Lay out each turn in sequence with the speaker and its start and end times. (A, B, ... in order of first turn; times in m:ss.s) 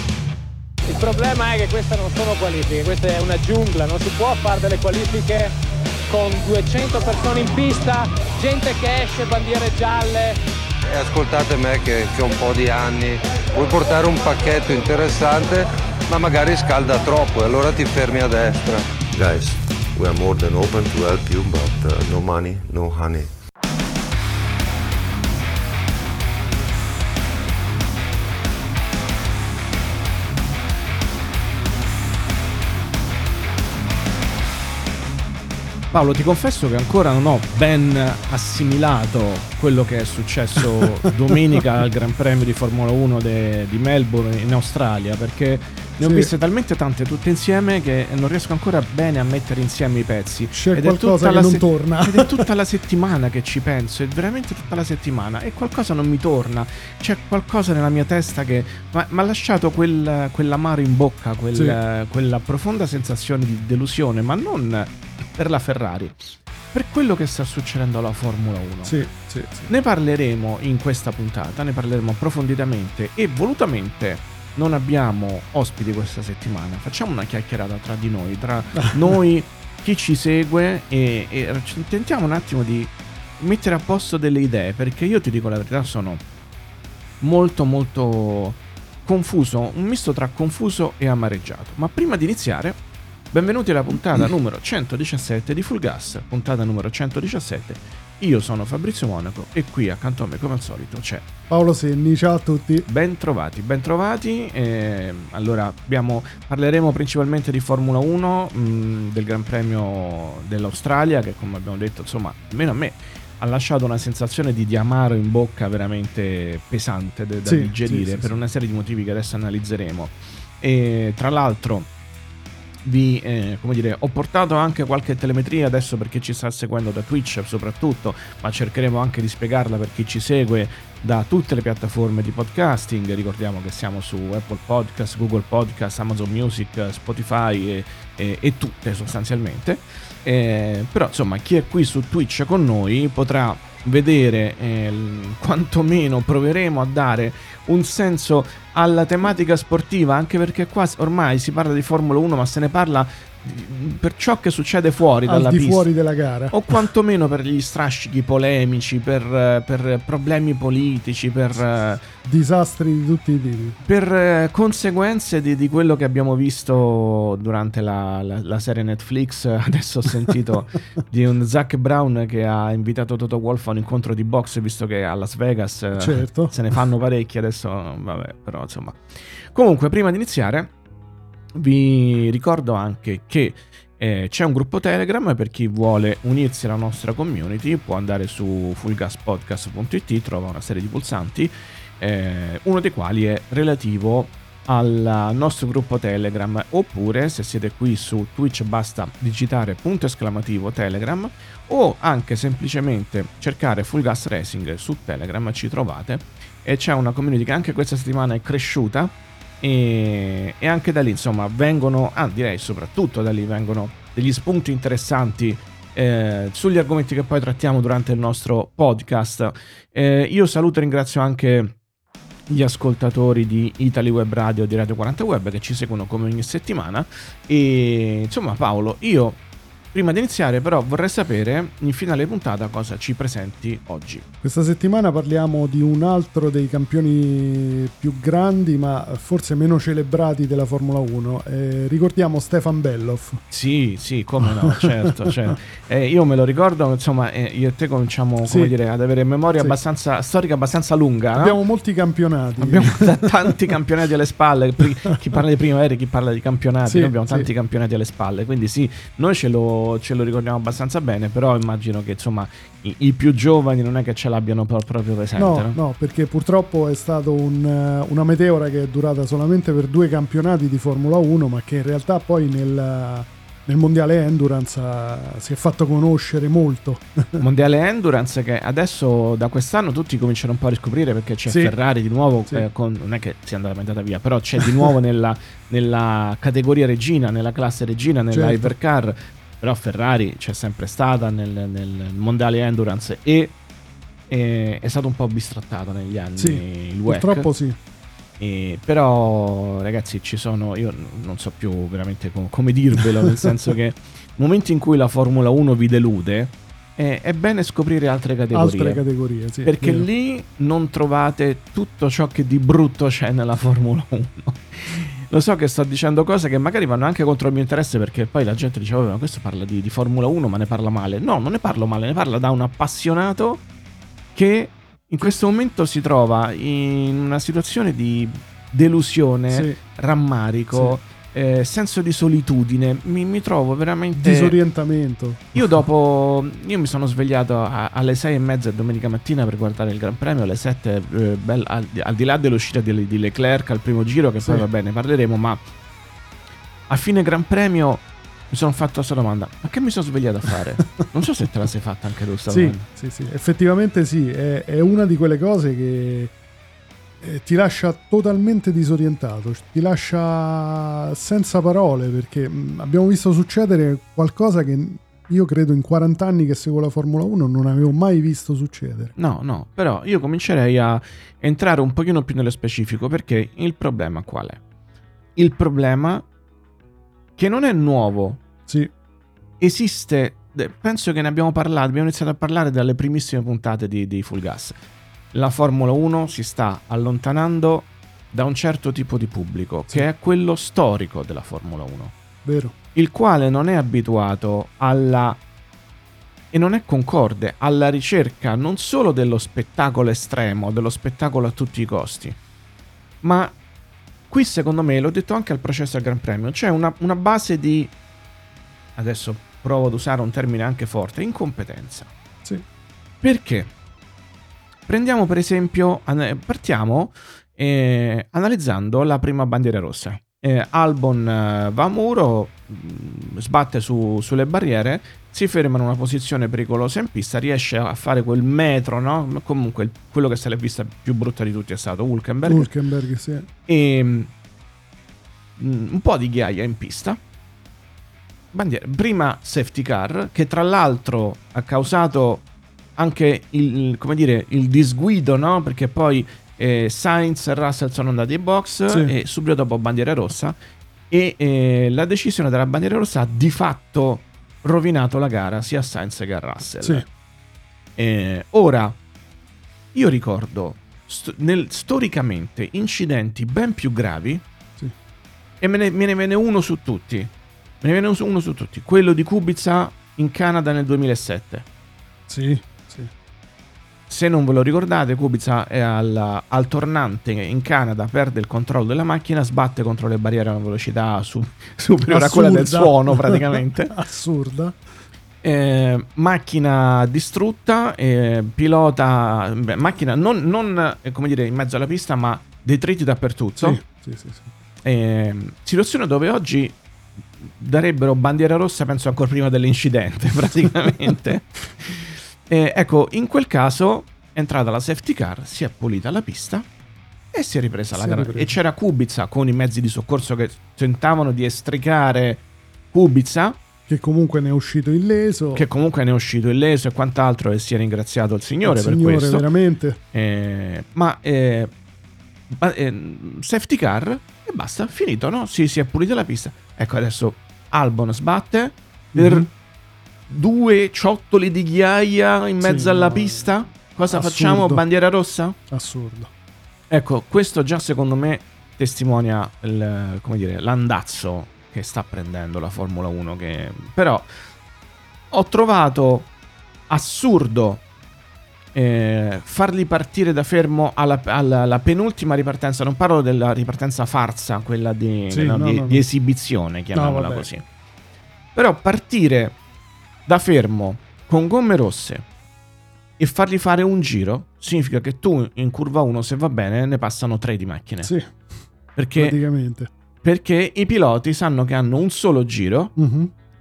0:00.9-0:05.5 A
0:06.1-0:10.4 A
0:10.9-0:18.9 B
0:19.1-0:23.3 C
0:35.9-1:09.0 D
0:46.0-0:46.3 E
0:50.5-0:52.5 E
1:08.8-1:09.7 E
1:09.7-1:26.2 D
1:18.8-1:19.2 E
1:27.2-1:32.8 D
1:33.3-1:41.2 D
1:41.5-1:42.9 E
1:42.9-2:01.9 D
1:57.4-1:58.3 E
2:02.8-2:35.9 D
2:35.2-2:36.8 E
2:36.5-2:42.0 D
2:42.2-2:43.8 E
2:43.8-3:00.7 D
2:56.0-2:56.6 E
3:01.5-3:41.7 D
3:42.5-3:49.4 D
3:49.9-3:54.2 D
3:54.4-4:03.4 E
4:03.5-4:11.6 D
4:04.4-4:05.5 E
4:08.4-4:08.7 E
4:11.3-4:13.5 E
4:12.6-4:25.8 D
4:16.9-4:17.5 E
4:25.4-4:37.4 E
4:37.4-4:53.5 D
4:41.5-4:41.7 E
4:44.6-4:44.9 E
4:48.3-4:48.7 E
4:54.3-4:57.5 D
4:56.4-4:57.8 E
4:58.4-5:09.0 D
5:08.5-5:10.1 E
5:09.6-5:23.6 D
5:24.3-5:34.6 D
5:29.5-5:29.8 E
5:34.1-5:35.8 E
5:35.5-5:45.6 D
5:46.9-5:52.8 D
5:52.5-5:56.3 E
5:57.2-6:09.1 E
6:09.2-6:14.6 D
6:15.4-6:16.2 D
6:17.4-6:18.4 D
6:19.6-6:24.8 D
6:25.3-6:32.1 D
6:32.4-6:32.7 E
6:32.9-6:35.4 D
6:36.5-6:42.4 D
6:43.2-6:43.5 D
6:44.3-6:47.9 D
6:49.0-6:52.1 D
6:53.2-6:53.7 D
6:54.9-7:12.7 D
7:12.4-7:13.5 E
7:13.7-7:14.3 D
7:15.6-7:17.2 D
7:18.5-7:22.4 D
7:23.0-7:30.6 D
7:31.1-7:37.0 D
7:38.0-7:39.0 D
7:39.9-7:44.4 D
7:45.6-7:47.3 D
7:47.8-7:51.6 D
7:52.3-7:53.1 E
7:54.1-8:03.9 D
8:01.8-8:04.9 E
8:05.4-8:13.8 D
8:13.6-8:14.5 E
8:14.8-8:16.8 D
8:17.4-8:26.6 D
8:27.3-8:33.6 D
8:27.9-8:28.6 E
8:33.9-8:35.7 E
8:35.5-8:39.4 D
8:38.6-8:40.0 E
8:40.1-8:41.7 D
8:42.5-8:49.5 D
8:49.1-8:49.5 E
8:50.3-8:55.6 D
8:52.6-8:53.5 E
8:54.1-8:54.8 E
8:55.7-8:56.3 E
8:56.9-9:04.3 D
9:05.3-9:06.3 D
9:06.9-9:07.8 D
9:08.7-9:17.6 D
9:15.3-9:16.0 E
9:16.9-9:17.5 E
9:18.5-9:19.6 D
9:20.2-9:22.2 D
9:23.2-9:28.1 D
9:28.0-9:28.4 E
9:29.0-9:29.4 D
9:29.1-9:29.9 E
9:30.2-9:32.9 D
9:33.0-9:33.3 E